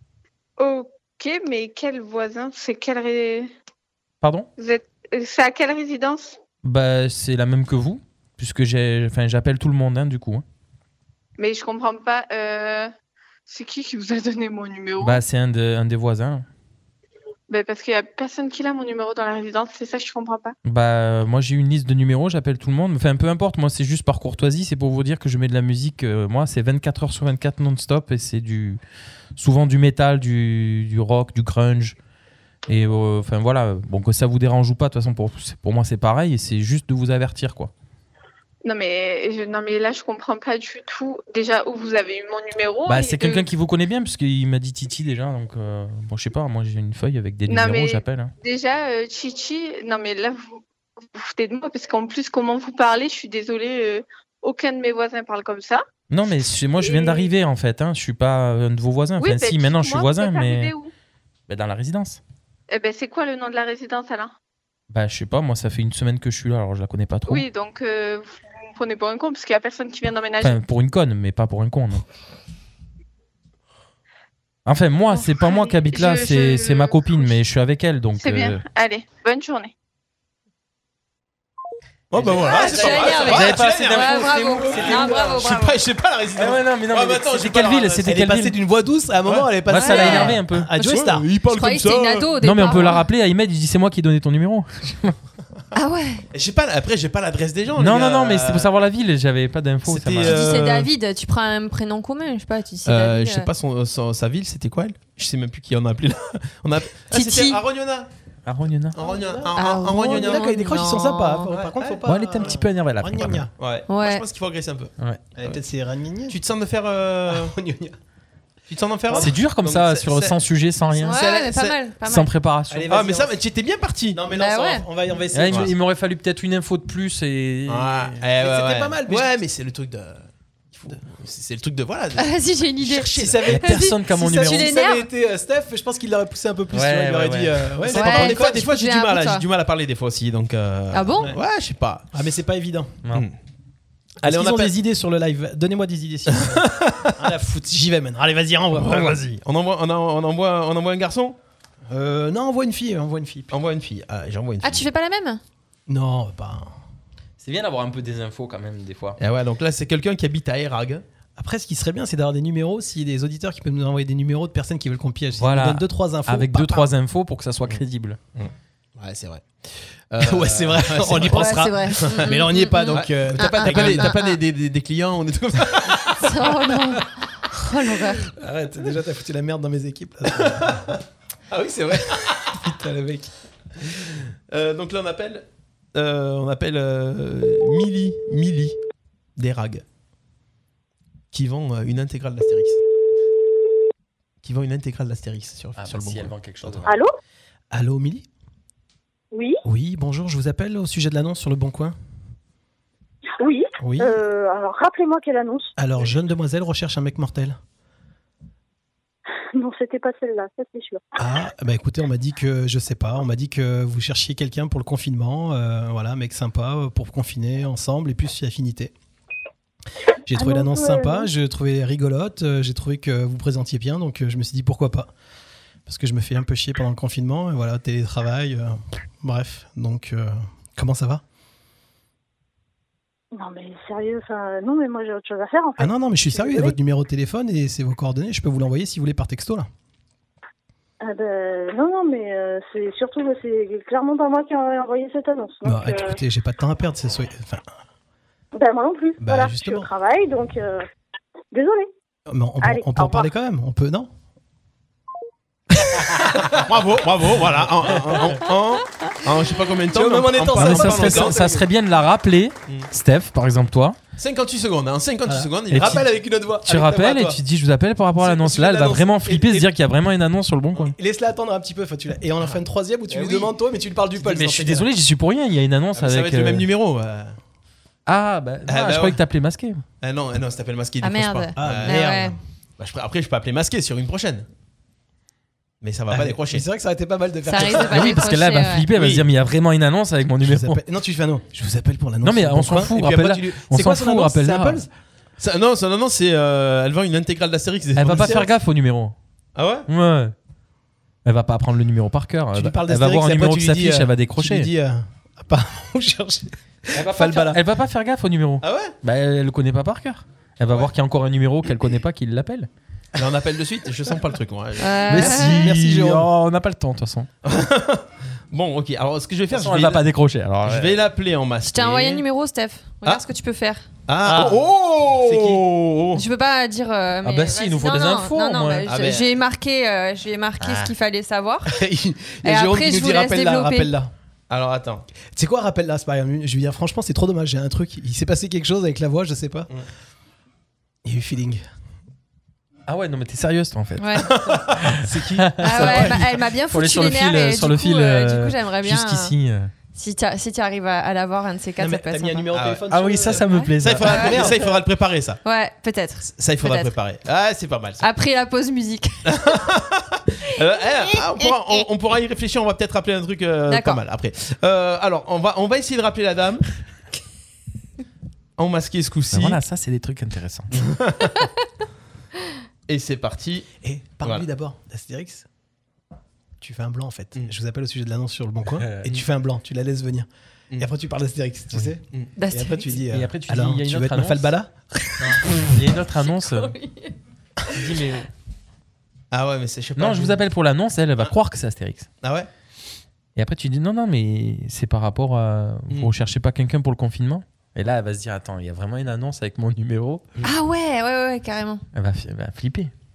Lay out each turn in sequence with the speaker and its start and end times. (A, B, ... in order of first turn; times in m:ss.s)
0:00.6-0:03.5 A
0:04.2-0:04.5 B
0:04.6-0:06.4 A
0:06.6-0:10.4 B
0:11.4-0:12.9 A
0:13.5-0:15.2 A
0:15.0-0:16.5 B
0:17.5-0:20.6 A
0:20.6-0:28.8 B
0:29.4-0:32.0 B
0:32.7-0:37.7 B
0:38.6-0:43.5 A
0:42.9-0:48.3 B
0:47.5-0:55.8 A
0:56.1-1:00.7 B
0:56.8-0:57.3 A
0:59.2-1:00.9 A
1:01.5-1:02.2 B
1:02.7-1:04.3 A
1:04.9-1:07.4 B
1:07.3-1:10.6 A
1:10.4-1:12.0 B
1:14.7-1:18.6 B
1:15.1-1:17.4 A
1:18.2-1:19.7 A
1:22.1-1:28.2 C
1:22.2-1:25.0 B
1:22.4-1:25.8 D
1:24.9-1:25.1 E
1:26.4-1:28.6 B
1:28.0-1:31.3 E
1:29.3-1:32.3 C
1:29.7-1:30.7 B
1:29.8-1:33.0 D
1:32.4-1:35.2 B
1:35.7-1:36.2 D
1:36.3-1:38.7 C
1:37.8-1:40.6 B
1:39.9-1:40.9 C
1:40.2-1:43.5 D
1:42.8-1:48.1 C
1:47.1-1:47.6 D
1:48.5-1:49.0 B
1:48.9-1:50.5 C
1:49.0-1:53.5 E
1:49.5-1:51.5 D
1:51.5-1:52.0 C
1:52.0-1:53.5 B
1:53.6-1:55.6 C
1:53.9-1:54.2 D
1:55.4-1:56.4 E
1:56.3-1:57.5 C
1:57.3-1:58.0 E
1:58.7-2:00.4 C
1:59.1-2:01.2 B
2:01.0-2:02.3 D
2:01.0-2:01.8 C
2:02.0-2:02.9 B
2:02.7-2:03.4 E
2:02.9-2:04.2 C
2:04.1-2:05.7 E
2:04.3-2:04.8 D
2:05.3-2:08.2 B
2:07.7-2:13.5 C
2:08.4-2:09.3 E
2:12.2-2:15.1 D
2:13.2-2:18.6 E
2:13.5-2:14.7 B
2:16.7-2:17.7 B
2:17.8-2:22.1 C
2:17.9-2:19.4 D
2:20.9-2:21.3 D
2:22.1-2:22.9 E
2:23.0-2:23.3 B
2:24.2-2:24.8 C
2:24.2-2:29.2 E
2:26.3-2:27.2 C
2:28.7-2:31.4 C
2:31.9-2:33.5 E
2:33.5-2:34.9 C
2:34.6-2:35.4 D
2:35.9-2:36.7 E
2:37.4-2:39.2 B
2:39.2-2:41.0 C
2:41.4-2:46.9 E
2:45.4-2:48.2 B
2:48.4-2:52.2 C
2:50.2-2:54.1 E
2:51.2-2:54.4 D
2:52.9-2:56.8 C
2:56.2-2:58.3 D
2:58.3-3:00.9 E
3:00.4-3:00.9 C
3:01.5-3:02.6 C
3:02.3-3:03.3 E
3:04.5-3:08.8 C
3:09.4-3:09.8 C
3:11.3-3:12.8 C
3:14.4-3:16.9 C
3:15.8-3:16.9 B
3:16.9-3:17.1 F
3:17.7-3:18.3 E
3:19.3-3:19.6 F
3:19.6-3:22.0 E
3:23.4-3:25.7 F
3:23.8-3:24.2 E
3:25.8-3:27.6 E
3:29.6-3:31.0 F
3:31.2-3:38.9 E
3:40.3-3:45.1 E
3:40.4-3:41.3 F
3:45.9-3:51.2 E
3:53.3-3:56.8 F
3:55.8-3:59.7 E
4:01.0-4:06.2 F
4:05.6-4:07.6 E
4:08.6-4:10.8 F
4:09.2-4:09.9 E
4:11.5-4:11.9 F
4:12.3-4:14.1 E
4:12.6-4:13.3 F
4:16.1-4:16.6 E
4:16.5-4:21.4 C
4:17.9-4:18.2 E
4:19.9-4:21.7 E
4:20.5-4:24.0 B
4:24.2-4:26.1 C
4:25.3-4:27.4 E
4:25.7-4:26.1 B
4:26.6-4:31.0 B
4:28.2-4:29.7 E
4:30.8-4:34.9 E
4:33.1-4:33.5 C
4:34.2-4:36.7 B
4:36.0-4:37.4 C
4:38.1-4:39.8 B
4:38.7-4:39.2 C
4:40.0-4:42.1 C
4:41.0-4:42.4 D
4:41.6-4:42.4 E
4:42.8-4:44.5 C
4:45.8-4:46.6 C
4:46.1-4:48.2 E
4:47.5-4:48.9 D
4:47.9-4:50.8 B
4:50.4-4:54.9 E
4:52.2-4:54.9 B
4:55.4-4:58.5 C
4:58.0-4:59.2 B
4:58.1-4:58.4 E
4:59.6-4:59.9 C
4:59.9-5:00.4 B
5:01.2-5:04.7 B
5:02.5-5:07.6 E
5:06.9-5:12.7 B
5:08.6-5:08.9 C
5:13.2-5:15.3 C
5:14.8-5:15.7 D
5:15.1-5:17.3 B
5:15.2-5:16.3 E
5:17.4-5:20.0 C
5:19.5-5:21.0 B
5:20.6-5:22.2 C
5:21.6-5:23.9 D
5:24.1-5:26.2 C
5:24.2-5:25.6 E
5:26.1-5:31.8 D
5:27.2-5:28.9 B
5:28.9-5:29.3 C
5:30.6-5:30.9 C
5:31.7-5:34.1 E
5:32.4-5:33.9 D
5:34.5-5:35.1 C
5:35.4-5:39.7 E
5:41.0-5:41.6 E
5:42.9-5:49.7 B
5:44.0-5:44.3 D
5:44.4-5:45.0 C
5:45.0-5:46.1 E
5:45.6-5:49.3 D
5:45.8-5:46.1 C
5:49.9-5:52.5 D
5:51.8-5:53.5 E
5:52.5-5:52.8 C
5:52.9-5:54.4 B
5:53.5-5:54.6 D
5:53.8-5:55.4 C
5:54.1-5:54.6 E
5:55.4-5:57.0 D
5:56.3-5:58.0 C
5:58.0-5:59.6 D
5:59.3-6:06.7 C
6:00.8-6:01.9 D
6:03.7-6:04.0 D
6:08.6-6:09.6 C
6:09.3-6:10.9 B
6:10.7-6:11.3 C
6:12.9-6:13.7 C
6:13.8-6:15.4 E
6:14.2-6:14.5 C
6:16.6-6:25.4 E
6:18.8-6:19.1 B
6:22.4-6:23.0 D
6:23.1-6:24.5 B
6:25.4-6:26.7 B
6:26.2-6:27.2 D
6:27.7-6:28.3 B
6:29.3-6:30.4 C
6:30.0-6:32.1 B
6:32.2-6:32.5 C
6:33.4-6:40.2 B
6:40.4-6:41.8 D
6:41.9-6:42.9 B